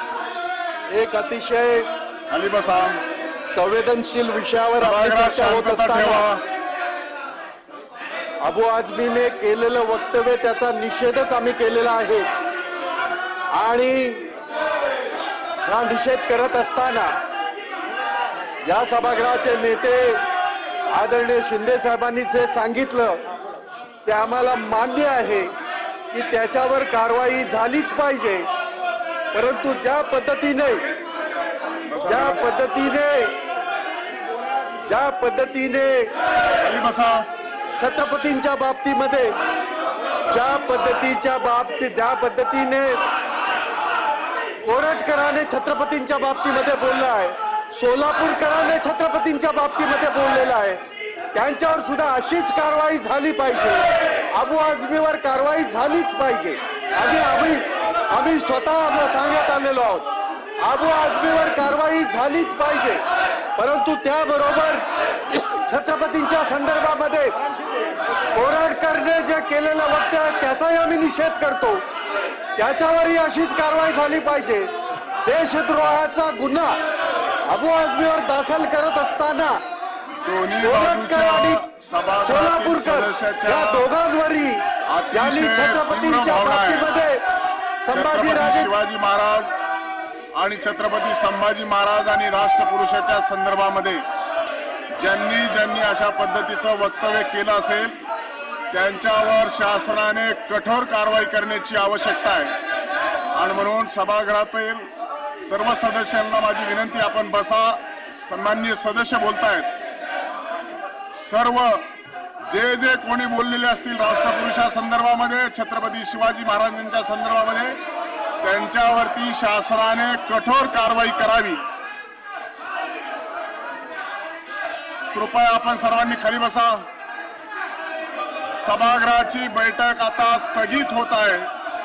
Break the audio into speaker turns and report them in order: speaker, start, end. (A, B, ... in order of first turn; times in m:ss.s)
0:00.9-0:01.9 A
0:02.3-0:03.0 B
0:03.5-0:06.2 A
0:04.8-0:06.4 B
0:08.4-0:12.3 A
0:13.5-0:14.3 A
0:15.6-0:17.1 A
0:18.6-0:20.2 A
0:20.9-0:23.2 A
0:24.0-0:25.5 A
0:26.1-0:28.5 A
0:29.3-0:30.8 A
0:31.9-0:32.4 B
0:32.0-0:33.3 A
0:34.8-0:36.1 A
0:36.6-0:37.2 B
0:37.8-0:39.3 A
0:40.3-0:43.0 A
0:44.6-0:50.8 A
0:51.3-0:53.8 A
0:54.4-1:00.0 A
1:00.6-1:03.0 A
1:03.6-1:07.4 A
1:08.3-1:11.8 A
1:12.6-1:14.7 A
1:15.2-1:16.8 A
1:17.5-1:19.6 A
1:20.2-1:23.9 B
1:20.6-1:21.6 A
1:22.2-1:27.2 A
1:24.9-1:26.8 B
1:27.9-1:28.7 A
1:27.9-1:29.5 B
1:30.3-1:34.0 B
1:35.0-1:38.0 B
1:38.7-1:42.5 B
1:43.3-1:44.9 B
1:45.4-1:49.7 B
1:51.2-1:51.8 B
1:52.5-1:57.8 B
1:58.4-2:01.6 B
2:05.1-2:06.8 B
2:08.6-2:11.5 B